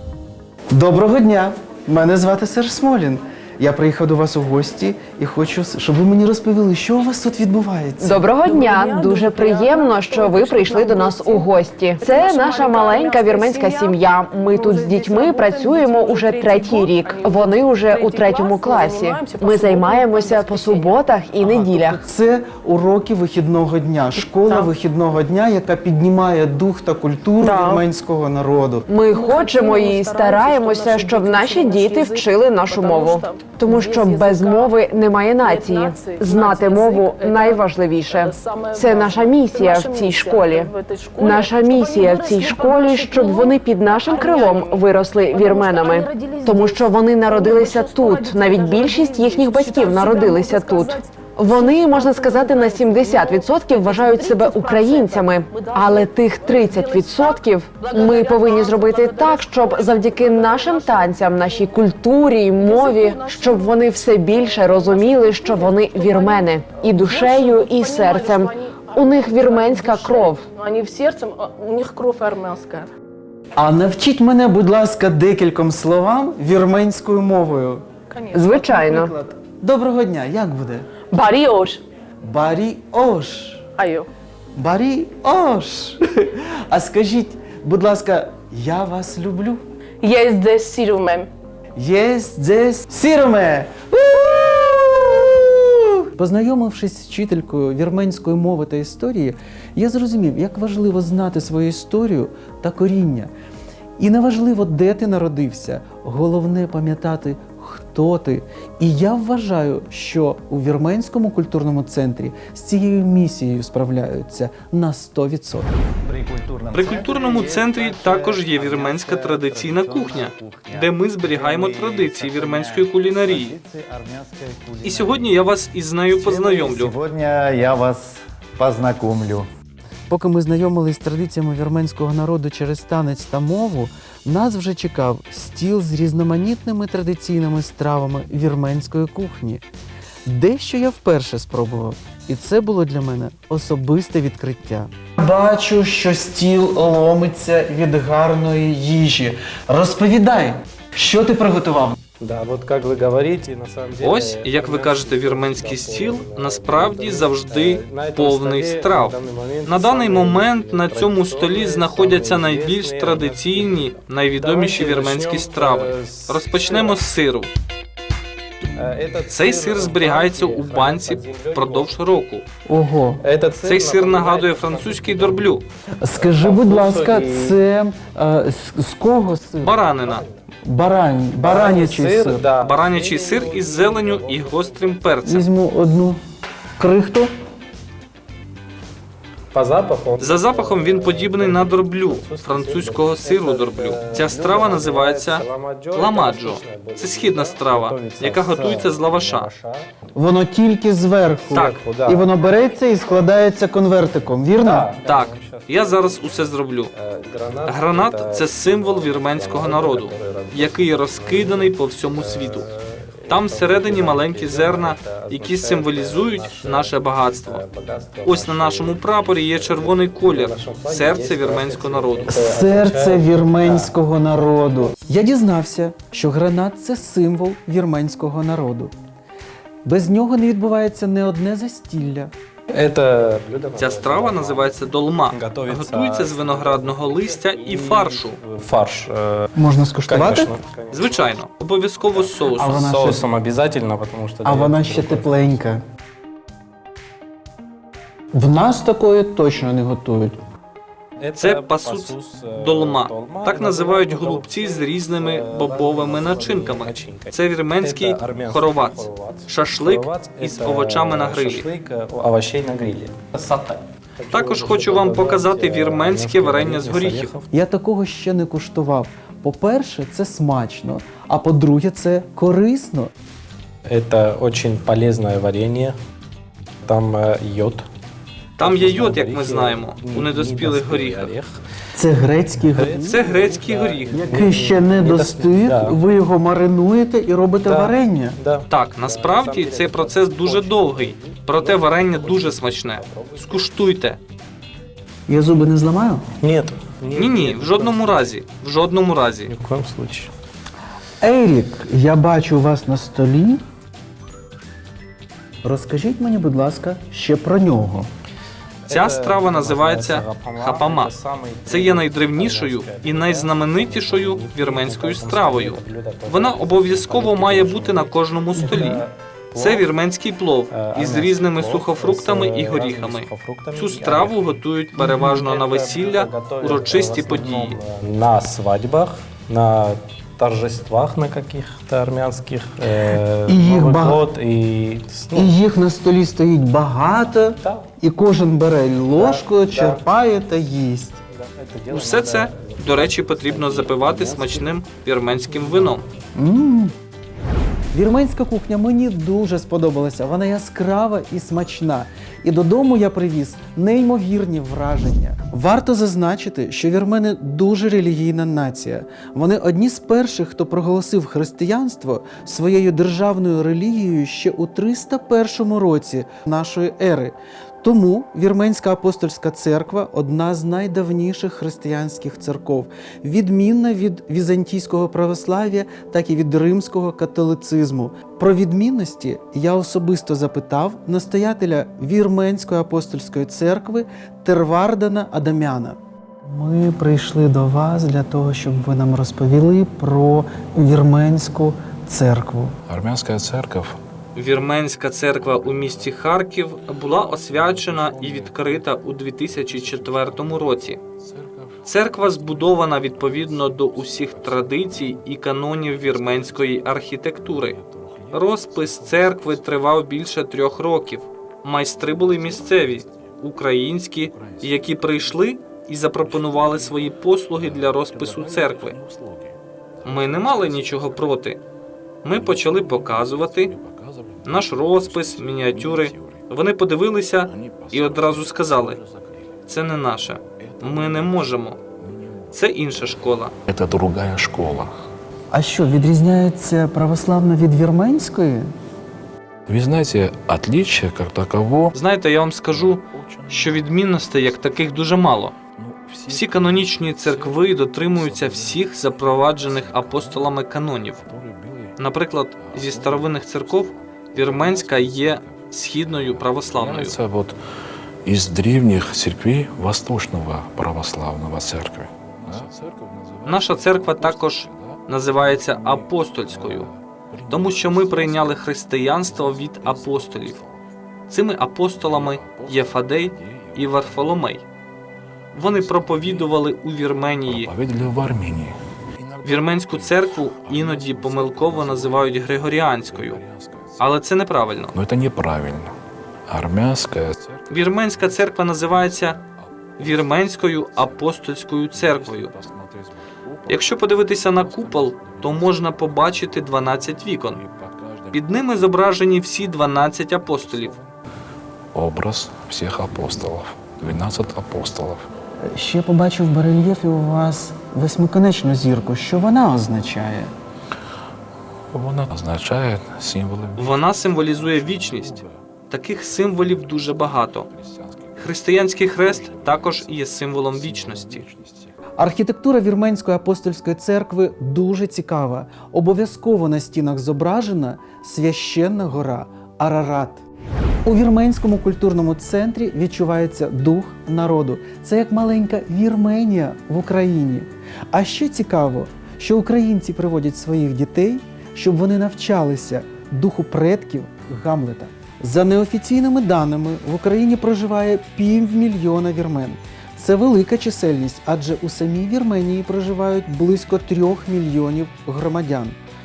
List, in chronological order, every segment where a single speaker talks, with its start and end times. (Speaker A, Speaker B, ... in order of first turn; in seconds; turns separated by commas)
Speaker A: 0.7-8.3, Speaker B: 8.0-22.0, Speaker C: 8.4-21.0, Speaker A: 21.4-28.9, Speaker C: 24.2-24.7, Speaker C: 27.4-27.8, Speaker B: 28.9-70.5, Speaker C: 29.1-34.8, Speaker C: 35.4-61.7, Speaker C: 62.6-72.9, Speaker A: 73.6-77.9, Speaker C: 78.1-78.9, Speaker B: 78.3-79.1, Speaker A: 78.5-80.9, Speaker C: 81.1-81.8, Speaker A: 82.2-83.6, Speaker C: 83.8-84.1, Speaker A: 84.5-89.6, Speaker C: 90.0-91.3, Speaker A: 91.8-103.3, Speaker A: 104.0-115.7, Speaker D: 116.1-125.3, Speaker E: 116.7-123.6, Speaker E: 124.8-127.0, Speaker D: 126.2-129.5, Speaker A: 130.1-139.6, Speaker A: 140.3-152.0, Speaker F: 152.2-167.0, Speaker E: 154.0-167.5, Speaker F: 168.8-171.9, Speaker E: 169.3-172.4, Speaker A: 172.7-173.2, Speaker F: 173.2-175.6, Speaker E: 173.6-175.6, Speaker A: 176.0-179.8, Speaker F: 176.2-177.6, Speaker E: 179.6-180.2, Speaker F: 180.0-180.4, Speaker A: 180.7-182.5, Speaker F: 181.4-185.2, Speaker E: 182.6-185.5, Speaker A: 185.2-186.2, Speaker A: 186.8-187.3, Speaker F: 189.5-199.9, Speaker E: 190.2-199.5, Speaker A: 200.2-204.9, Speaker F: 201.5-202.3, Speaker F: 204.6-206.3, Speaker E: 205.1-206.9, Speaker F: 206.9-223.9, Speaker E: 207.7-212.7, Speaker E: 213.3-217.6, Speaker E: 218.2-222.3, Speaker A: 222.3-228.9, Speaker A: 229.8-232.3, Speaker F: 232.7-234.8, Speaker E: 233.8-238.4, Speaker F: 235.3-239.5, Speaker A: 239.6-240.6, Speaker F: 240.1-241.3, Speaker E: 240.9-242.8, Speaker F: 242.1-245.6, Speaker A: 242.6-243.2, Speaker A: 244.4-245.8, Speaker A: 248.3-250.4, Speaker F: 251.2-267.5, Speaker E: 251.4-261.7, Speaker E: 264.3-267.3, Speaker A: 267.5-273.1, Speaker F: 273.9-276.0, Speaker F: 276.9-277.9, Speaker E: 278.6-281.3, Speaker F: 278.6-281.5, Speaker A: 281.9-283.3, Speaker F: 282.7-286.0, Speaker E: 283.1-284.3, Speaker A: 284.1-288.4, Speaker F: 287.7-293.6, Speaker E: 288.7-294.2, Speaker A: 295.3-296.2, Speaker F: 296.4-298.2, Speaker E: 297.1-299.5, Speaker F: 299.5-300.3, Speaker A: 301.2-303.6, Speaker A: 305.6-308.1, Speaker F: 308.9-319.9, Speaker E: 308.9-311.1, Speaker E: 311.7-319.0, Speaker E: 319.6-327.8, Speaker F: 320.7-335.6, Speaker A: 325.0-325.2, Speaker A: 333.0-334.3, Speaker A: 335.3-341.2, Speaker F: 337.6-337.9, Speaker F: 339.1-340.0, Speaker F: 341.3-346.0, Speaker E: 341.9-346.0, Speaker A: 346.4-346.9, Speaker A: 347.9-392.8, Speaker G: 392.9-394.0, Speaker E: 394.4-401.0, Speaker G: 395.3-396.2, Speaker G: 397.4-405.3, Speaker E: 401.9-407.8, Speaker G: 405.9-409.8, Speaker E: 408.3-419.0, Speaker G: 411.8-413.4, Speaker G: 414.3-415.5, Speaker G: 416.2-421.3, Speaker E: 420.1-421.6, Speaker E: 422.2-423.7, Speaker G: 422.3-426.5, Speaker E: 424.4-429.0, Speaker G: 427.4-429.6, Speaker E: 429.7-431.8, Speaker G: 430.6-435.0, Speaker E: 432.5-433.5, Speaker A: 435.5-438.7, Speaker G: 439.7-442.0, Speaker E: 441.9-445.6, Speaker G: 442.7-444.2, Speaker G: 445.8-450.6, Speaker E: 446.3-451.2, Speaker G: 451.1-452.0, Speaker E: 452.0-457.2, Speaker G: 452.6-457.6, Speaker G: 458.2-468.6, Speaker E: 463.4-466.9, Speaker E: 467.5-470.6, Speaker G: 469.2-470.9, Speaker E: 471.3-474.6, Speaker G: 472.0-474.4, Speaker G: 475.5-476.6, Speaker E: 475.5-477.7, Speaker G: 477.5-484.1, Speaker E: 479.4-483.4, Speaker E: 484.0-484.9, Speaker G: 484.9-485.9, Speaker G: 486.5-491.3, Speaker E: 487.7-489.4, Speaker E: 490.0-492.5, Speaker G: 491.9-499.0, Speaker E: 493.7-497.6, Speaker E: 498.3-500.9, Speaker G: 499.5-501.1, Speaker G: 501.9-505.2, Speaker A: 505.7-510.5, Speaker G: 511.9-515.6, Speaker E: 513.8-517.7, Speaker G: 516.7-522.0, Speaker E: 518.4-521.5, Speaker A: 522.2-530.4, Speaker A: 531.0-556.0